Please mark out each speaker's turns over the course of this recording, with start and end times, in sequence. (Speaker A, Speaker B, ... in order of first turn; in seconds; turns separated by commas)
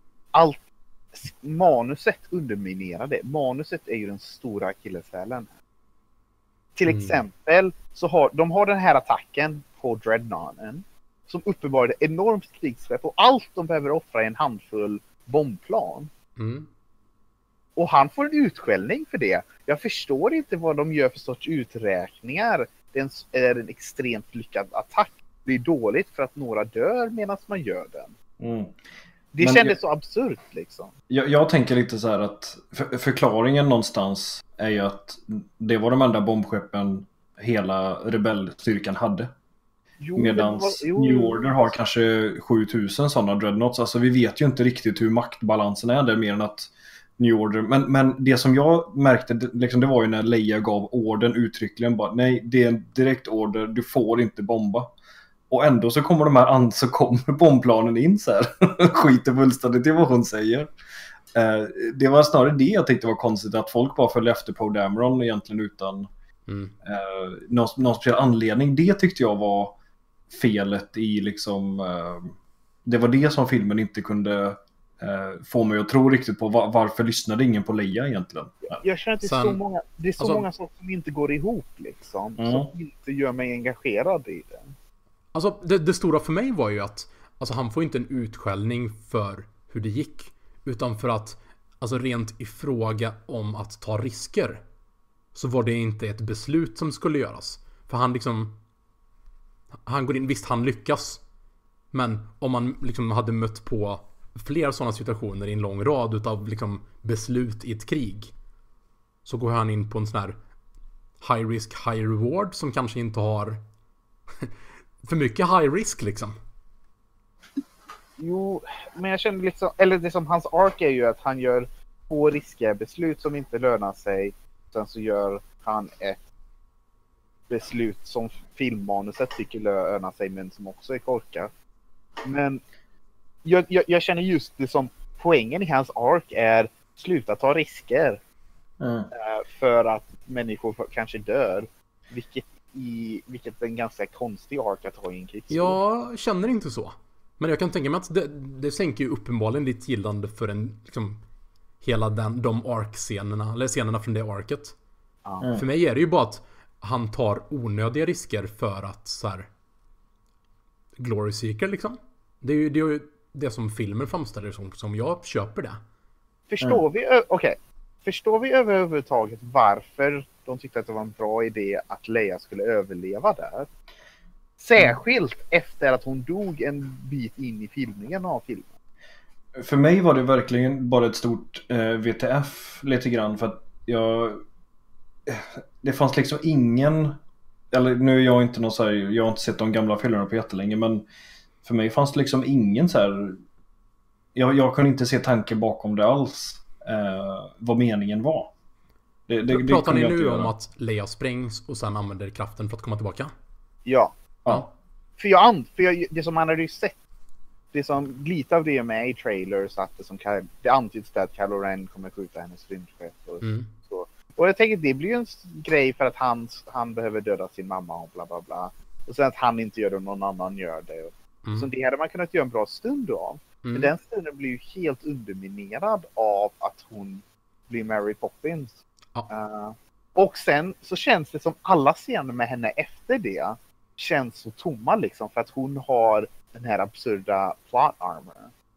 Speaker A: 0.3-5.5, Speaker A: 6.8-16.1, Speaker B: 6.8-7.2, Speaker B: 16.4-16.7, Speaker A: 17.8-28.1, Speaker C: 28.4-28.8, Speaker A: 29.3-30.9, Speaker C: 29.4-29.8, Speaker C: 31.1-39.3, Speaker A: 40.0-41.7, Speaker C: 40.1-54.9, Speaker C: 55.5-60.7, Speaker C: 61.3-66.1, Speaker B: 66.5-66.7, Speaker C: 66.8-69.7, Speaker C: 70.3-72.3, Speaker C: 72.8-78.8, Speaker A: 78.7-84.7, Speaker B: 79.2-79.6, Speaker B: 80.2-80.4, Speaker C: 82.4-82.7, Speaker B: 85.3-94.6, Speaker B: 95.3-98.6, Speaker B: 99.8-101.2, Speaker B: 101.9-108.3, Speaker B: 109.2-110.3, Speaker B: 111.2-113.6, Speaker B: 115.0-116.4, Speaker A: 118.2-126.2, Speaker A: 127.5-131.5, Speaker A: 132.2-132.6, Speaker A: 133.4-138.2, Speaker C: 138.8-139.1, Speaker A: 139.1-145.8, Speaker B: 145.5-151.2, Speaker B: 151.8-154.7, Speaker A: 155.2-155.5, Speaker B: 155.5-159.5, Speaker B: 161.0-165.8, Speaker A: 166.5-173.7, Speaker A: 174.6-178.7, Speaker C: 179.6-184.4, Speaker C: 185.2-187.2, Speaker C: 187.7-191.1, Speaker C: 191.6-193.4, Speaker C: 194.3-198.5, Speaker C: 199.3-200.5, Speaker B: 199.5-203.3, Speaker A: 203.8-204.1, Speaker A: 205.2-206.9, Speaker A: 207.7-228.8, Speaker B: 213.4-213.7, Speaker B: 223.6-223.9, Speaker A: 229.3-238.5